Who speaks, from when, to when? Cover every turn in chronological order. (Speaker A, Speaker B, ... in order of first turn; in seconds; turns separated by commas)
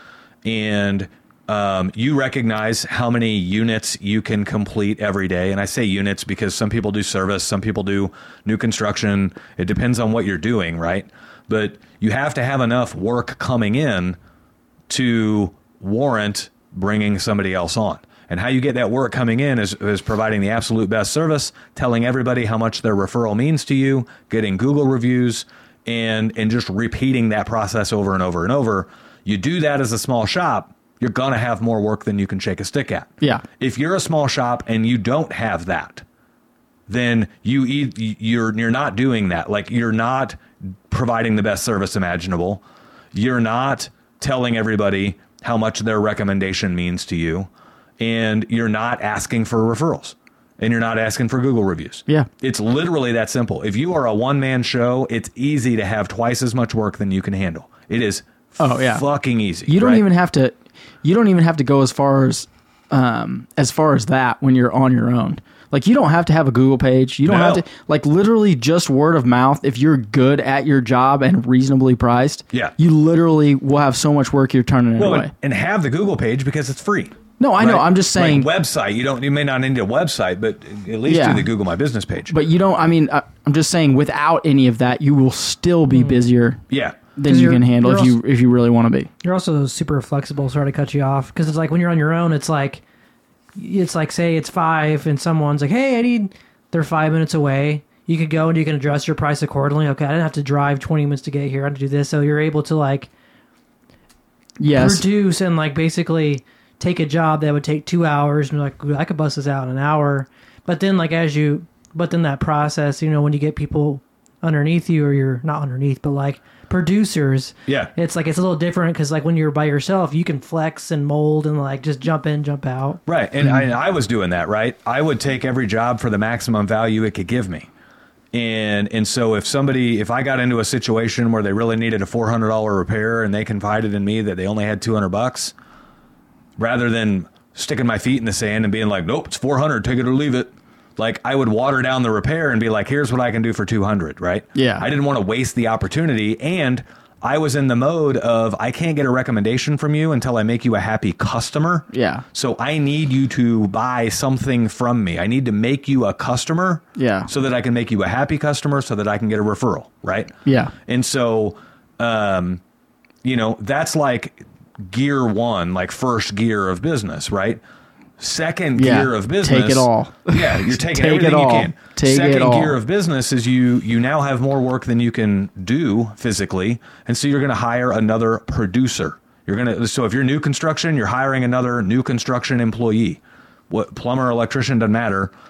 Speaker A: 0.4-14.2, Speaker A: 14.9-36.0, Speaker A: 36.9-42.6, Speaker A: 43.1-60.0, Speaker B: 58.6-59.0, Speaker B: 59.7-75.3, Speaker A: 67.3-67.6, Speaker A: 75.0-82.3, Speaker B: 77.4-78.5, Speaker B: 81.1-81.5, Speaker B: 82.3-86.6, Speaker C: 85.9-86.2, Speaker A: 86.7-87.0, Speaker B: 87.2-89.1, Speaker C: 87.3-88.2, Speaker C: 89.2-92.8, Speaker C: 93.6-103.1, Speaker B: 104.6-105.0, Speaker C: 104.7-123.0, Speaker A: 117.7-117.9, Speaker A: 123.1-127.7, Speaker A: 128.3-135.5, Speaker A: 136.6-160.3, Speaker B: 144.6-144.9, Speaker B: 151.9-152.2, Speaker B: 157.0-157.3, Speaker B: 160.5-160.7, Speaker A: 160.9-162.6, Speaker A: 163.2-167.6, Speaker A: 168.2-185.3, Speaker B: 168.8-172.8